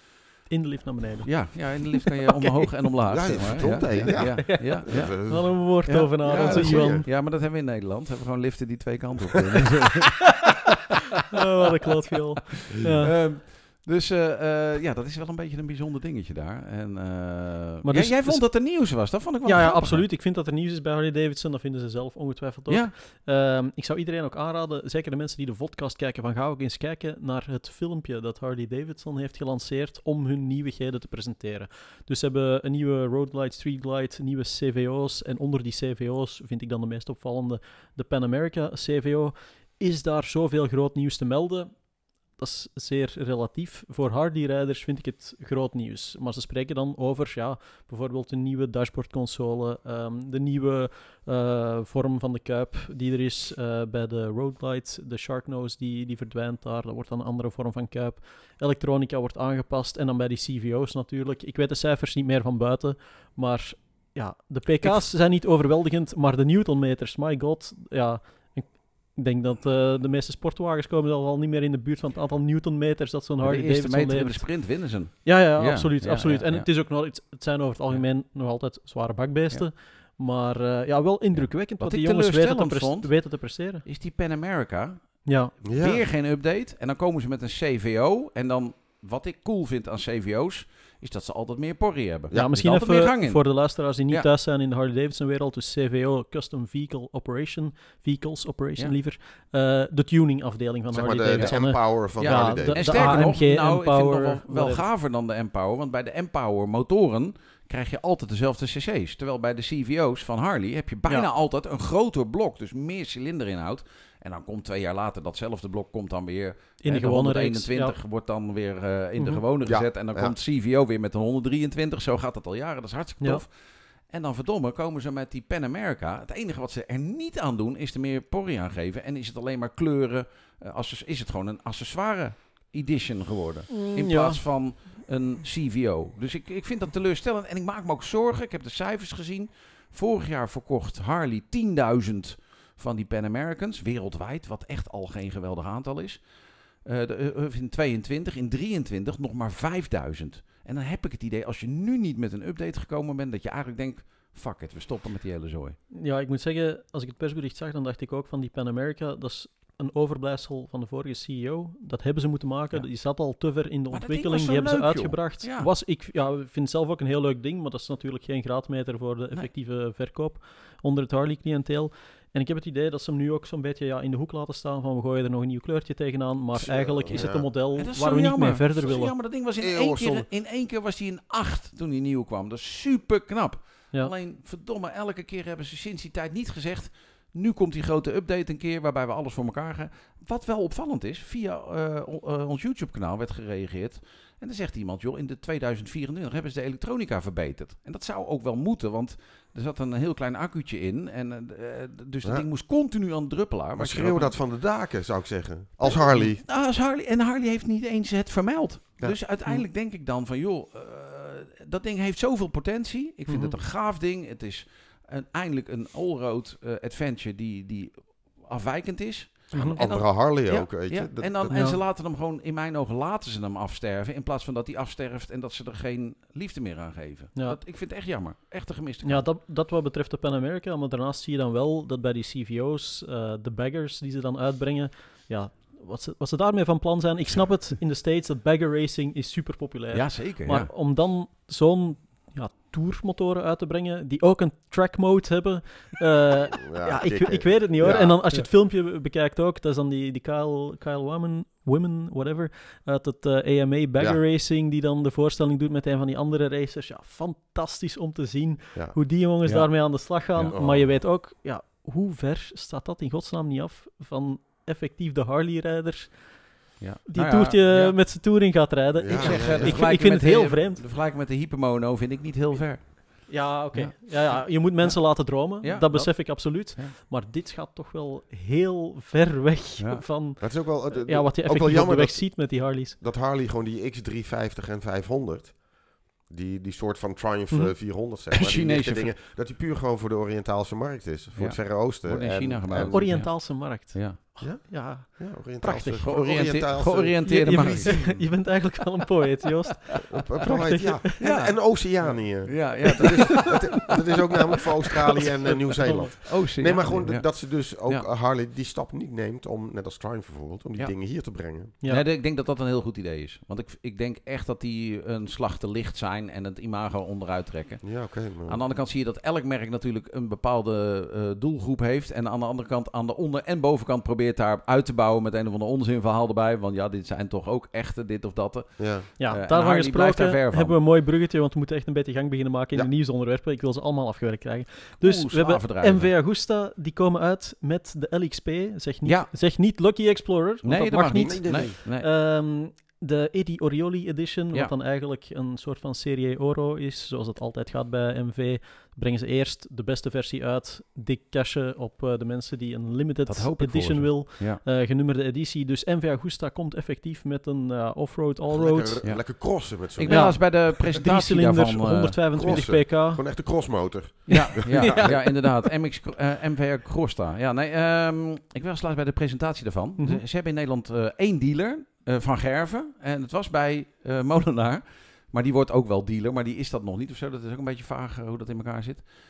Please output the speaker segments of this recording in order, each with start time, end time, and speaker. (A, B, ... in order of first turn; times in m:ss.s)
0:00.5-0:02.6 A
0:01.2-0:10.3 B
0:03.0-0:07.1 C
0:03.4-0:07.0 A
0:11.3-0:13.2 A
0:12.4-0:20.1 B
0:17.8-0:18.8 A
0:19.4-1:14.6 A
0:22.7-0:22.9 B
1:13.4-1:16.7 B
1:15.2-1:23.8 A
1:21.4-1:34.3 B
1:25.2-1:25.5 A
1:25.6-1:26.0 C
1:32.3-1:32.6 C
1:32.3-1:44.9 A
1:40.9-1:43.2 C
1:41.3-2:26.2 B
1:56.8-1:57.9 A
1:59.2-1:59.4 A
1:59.6-2:00.4 C
2:13.7-2:14.4 A
2:26.8-2:35.8 B
2:35.9-2:59.2 A
2:43.9-2:45.7 B
2:56.6-2:57.5 C
2:57.8-3:24.3 B
2:58.8-3:00.3 C
3:23.8-3:26.4 C
3:25.8-3:49.3 B
3:33.3-3:33.5 A
3:39.5-3:39.8 A
3:39.5-3:41.7 C
3:41.5-3:41.8 A
3:49.0-4:26.6 A
3:59.9-4:00.7 B
4:06.6-4:08.2 C
4:18.7-4:19.0 C
4:19.4-4:20.5 B
4:20.5-4:20.9 C
4:26.8-4:28.0 B
4:27.1-4:30.8 A
4:29.0-4:29.8 C
4:29.1-4:36.9 B
4:33.3-4:43.0 A
4:39.8-4:40.0 B
4:40.4-4:53.2 C
4:48.3-4:49.1 B
4:51.4-4:54.2 B
4:52.9-4:56.3 A
4:54.4-4:58.3 C
4:56.0-4:58.2 B
4:57.2-5:01.2 A
5:00.0-5:11.7 C
5:01.2-5:03.7 B
5:02.8-5:03.7 A
5:05.2-5:06.1 A
5:05.9-5:08.0 B
5:11.8-5:12.1 A
5:11.8-5:30.8 B
5:17.8-5:18.6 C
5:28.8-5:29.1 C
5:29.2-5:59.3 A
5:35.0-5:36.1 B
5:39.0-5:39.3 B
5:40.6-5:42.1 B
5:41.1-5:41.7 C
5:53.3-5:54.6 B
5:58.5-6:00.4 C
5:59.0-6:02.7 B
6:00.0-6:05.4 A
6:02.3-6:05.2 C
6:04.3-6:19.1 B
6:10.0-6:10.2 A